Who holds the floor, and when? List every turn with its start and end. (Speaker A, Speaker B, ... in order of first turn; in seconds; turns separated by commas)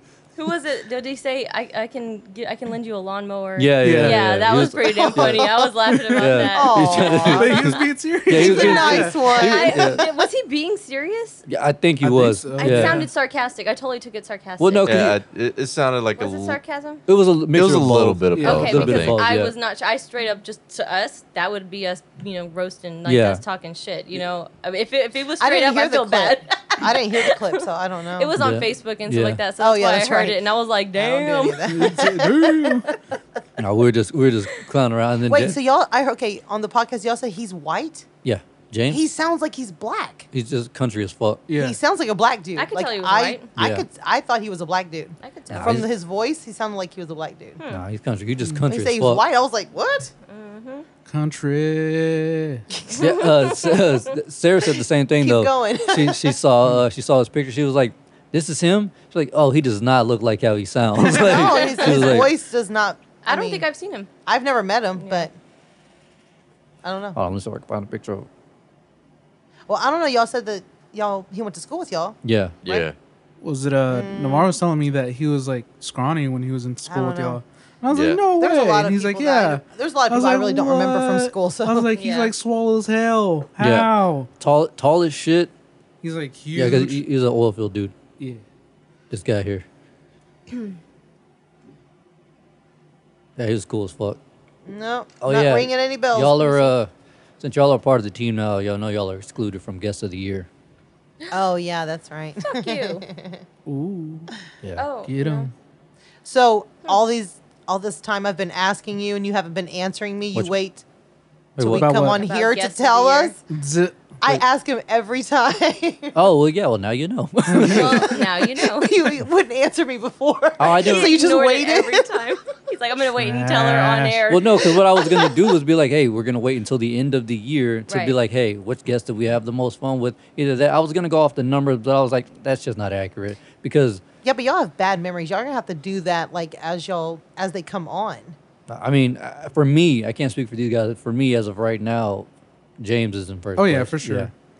Speaker A: 0.3-7.4, Speaker B: 3.6-5.5, Speaker C: 3.8-4.2, Speaker B: 6.1-7.7, Speaker D: 6.5-7.7, Speaker C: 7.2-9.2, Speaker B: 8.3-10.0, Speaker D: 8.3-9.9, Speaker A: 8.5-11.4, Speaker B: 11.5-13.0, Speaker C: 12.0-13.1, Speaker A: 12.6-15.0, Speaker B: 14.6-15.2, Speaker E: 14.8-16.6, Speaker A: 16.2-17.0, Speaker B: 17.1-19.5, Speaker E: 17.5-19.2, Speaker C: 18.3-18.7, Speaker A: 18.4-27.6, Speaker B: 23.1-23.4, Speaker D: 25.4-28.3, Speaker A: 28.2-31.6, Speaker B: 28.3-29.4, Speaker D: 29.6-32.8, Speaker C: 31.7-32.9, Speaker B: 33.6-35.6, Speaker D: 35.3-38.1, Speaker B: 38.2-39.0, Speaker D: 38.9-40.3, Speaker B: 40.3-41.4, Speaker C: 41.5-41.8, Speaker D: 41.5-47.6, Speaker A: 42.5-43.4, Speaker B: 43.6-43.8, Speaker A: 45.2-45.8, Speaker B: 45.5-45.9, Speaker B: 47.7-49.2, Speaker D: 48.7-50.1, Speaker A: 50.3-50.9, Speaker C: 51.0-52.6, Speaker A: 52.9-53.9, Speaker B: 53.0-62.3, Speaker D: 55.2-56.4, Speaker D: 61.1-63.6, Speaker A: 61.5-62.2, Speaker A: 63.2-64.1, Speaker D: 64.2-65.3, Speaker A: 65.0-65.3, Speaker D: 66.8-67.2, Speaker B: 67.1-68.3, Speaker D: 69.7-72.8, Speaker B: 72.2-72.6, Speaker E: 72.6-73.0, Speaker C: 73.4-84.3, Speaker D: 73.9-74.5, Speaker D: 76.8-77.4, Speaker E: 77.9-78.3, Speaker D: 78.3-81.9, Speaker A: 81.9-82.3, Speaker B: 83.6-85.5, Speaker C: 86.0-87.0, Speaker B: 86.5-87.9, Speaker C: 88.2-88.4, Speaker B: 89.1-89.7, Speaker B: 93.4-94.2, Speaker D: 94.7-96.5, Speaker B: 95.2-100.5, Speaker A: 96.4-96.7, Speaker D: 101.3-103.4, Speaker A: 102.4-103.0, Speaker C: 103.7-104.3, Speaker A: 104.8-105.5, Speaker C: 105.0-105.5, Speaker D: 106.2-110.8, Speaker B: 111.6-112.1, Speaker D: 111.6-113.4, Speaker C: 111.6-112.2, Speaker A: 112.0-113.3, Speaker C: 113.5-114.2, Speaker D: 114.2-116.2, Speaker B: 116.1-118.1, Speaker A: 117.7-119.0, Speaker D: 118.1-122.0, Speaker B: 120.6-121.3, Speaker A: 120.8-125.3, Speaker C: 123.2-124.2, Speaker B: 124.3-134.0, Speaker A: 127.9-128.2, Speaker D: 134.2-138.3, Speaker B: 138.7-142.3, Speaker B: 142.8-144.3, Speaker C: 143.6-144.3